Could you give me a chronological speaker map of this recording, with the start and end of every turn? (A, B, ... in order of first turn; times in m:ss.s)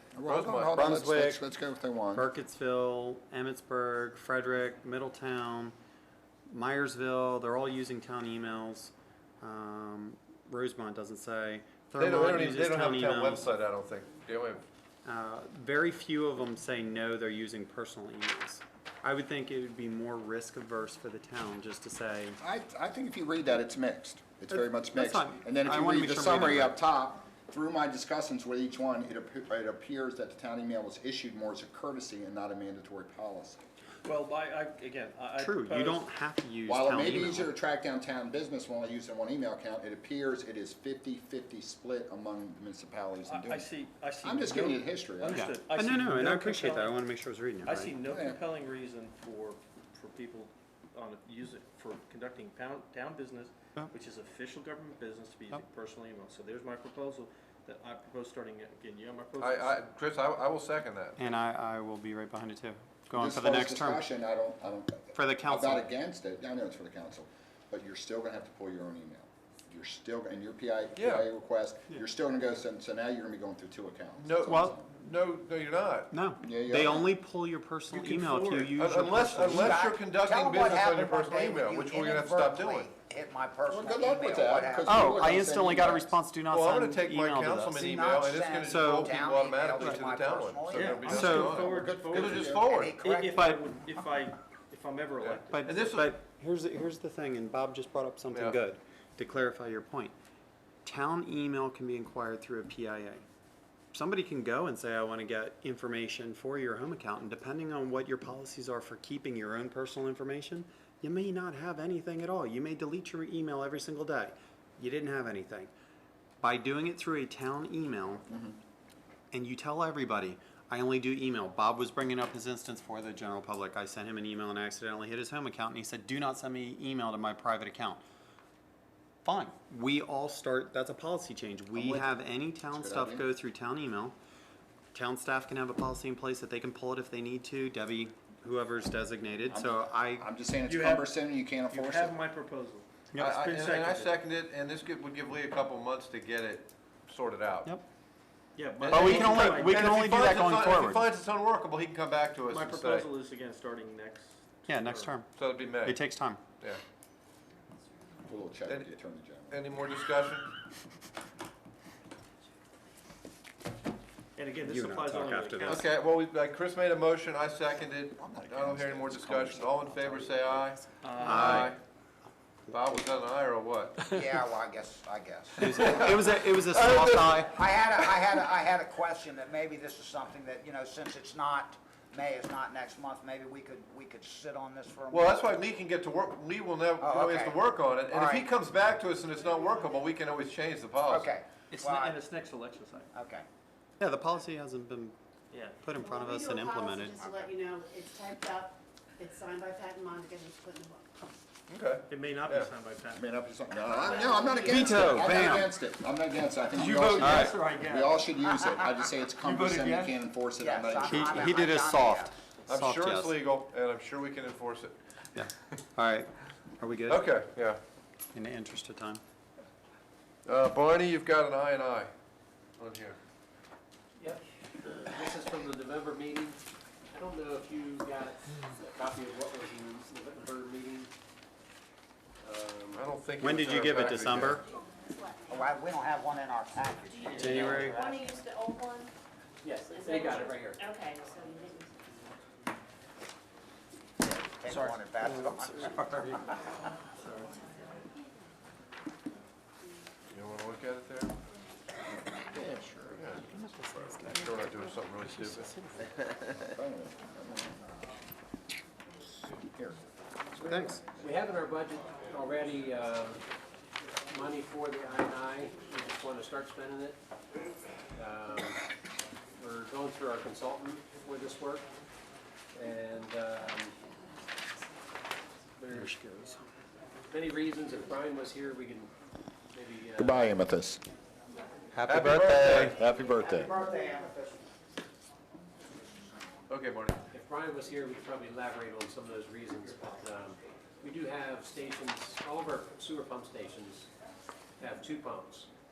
0:00.2-0:02.3 A
0:00.2-0:00.8 B
0:00.7-0:01.4 C
0:02.1-0:05.7 C
0:06.5-0:13.5 C
0:12.0-0:14.6 B
0:15.0-0:22.4 C
0:22.4-0:33.6 A
0:24.5-0:26.8 C
0:34.0-0:36.1 D
0:35.4-0:37.5 C
0:36.7-0:43.7 A
0:43.3-0:47.0 D
0:44.2-0:45.4 A
0:45.3-0:48.0 C
0:47.6-0:59.8 D
0:48.0-0:48.4 A
0:59.4-1:01.2 B
1:01.2-1:04.0 C
1:03.1-1:14.9 A
1:05.1-1:05.8 C
1:11.0-1:11.2 B
1:14.2-1:16.1 B
1:14.5-1:14.8 C
1:16.1-1:19.9 C
1:16.4-1:17.1 A
1:17.9-1:18.8 D
1:18.7-1:22.9 B
1:19.5-1:25.1 E
1:23.7-1:26.1 A
1:24.9-1:27.8 C
1:26.5-1:33.0 B
1:27.8-1:31.1 E
1:28.6-1:29.1 C
1:30.7-1:35.9 D
1:31.1-1:31.6 C
1:31.6-1:32.7 A
1:32.7-1:33.5 E
1:33.3-1:33.6 C
1:35.2-1:36.1 B
1:35.5-1:40.1 C
1:38.3-1:38.6 B
1:40.8-1:43.2 C
1:43.9-1:55.7 C
1:56.4-1:58.2 C
1:58.3-1:58.6 A
1:59.3-2:08.0 C
2:09.2-2:14.2 C
2:11.7-2:12.1 A
2:12.7-2:13.2 A
2:14.9-2:20.3 C
2:19.5-2:22.2 A
2:20.7-2:21.1 D
2:21.7-2:24.2 D
2:23.2-2:27.7 B
2:28.6-2:30.2 D
2:28.8-2:33.1 B
2:28.9-2:31.1 C
2:32.5-2:35.2 D
2:34.7-2:35.3 C
2:35.3-2:36.0 B
2:35.8-2:36.4 C
2:38.2-2:39.6 A
2:39.5-2:40.5 B
2:44.4-2:45.9 D
2:44.6-2:45.9 C
2:45.7-2:51.8 B
2:48.2-2:50.5 A
2:51.0-2:51.7 D
2:51.2-2:51.8 C
2:52.7-2:54.1 B
2:54.1-2:56.1 E
2:55.6-2:57.6 C
2:55.7-2:57.4 B
2:57.4-3:05.4 E
3:05.1-3:11.4 B
3:07.0-3:08.5 E
3:11.1-3:12.2 E
3:11.7-3:13.1 D
3:13.1-3:13.5 E
3:14.0-3:15.2 C
3:15.5-3:15.8 D
3:15.8-3:17.2 C
3:16.0-3:21.2 F
3:17.2-3:17.5 E
3:21.7-3:22.7 B
3:22.1-3:23.2 D
3:23.1-3:31.6 A
3:24.1-3:25.2 F
3:24.7-3:25.7 C
3:26.8-3:28.3 D
3:27.2-3:27.6 C
3:29.4-3:30.2 D
3:30.6-3:32.4 E
3:31.0-3:33.4 C
3:32.7-3:35.0 B
3:35.4-3:37.2 C
3:37.1-3:37.8 B
3:38.3-3:39.2 C
3:40.5-3:42.1 B
3:42.8-3:43.2 B
3:44.2-3:46.6 G
3:47.1-3:51.1 G
3:52.4-3:53.0 G
3:52.9-3:54.6 B
3:53.4-3:54.6 C
3:55.5-3:58.4 E
3:57.2-3:58.0 D
3:57.4-3:58.0 C
3:57.9-3:59.1 F
3:59.6-4:00.9 G
4:01.0-4:01.7 F
4:04.2-4:06.6 E
4:04.8-4:06.4 C
4:07.2-4:07.6 D
4:10.3-4:11.3 B
4:12.1-4:13.0 A
4:13.1-4:13.4 B
4:13.4-4:16.1 C
4:14.3-4:15.7 B
4:16.4-4:17.8 A
4:19.5-4:20.0 A
4:20.6-4:21.0 C
4:20.7-4:23.4 G
4:24.3-4:27.2 G
4:28.2-4:28.8 G
4:29.6-4:31.9 G
4:32.7-4:34.0 G
4:35.8-4:36.2 G
4:35.9-4:36.6 C
4:37.3-4:39.1 G
4:39.7-4:40.5 G
4:40.2-4:41.0 A
4:41.9-4:43.0 C
4:42.1-4:43.0 B
4:42.7-4:43.7 A
4:43.0-4:44.7 E
4:46.7-4:47.2 B
4:47.3-4:54.1 G
4:54.8-4:55.7 G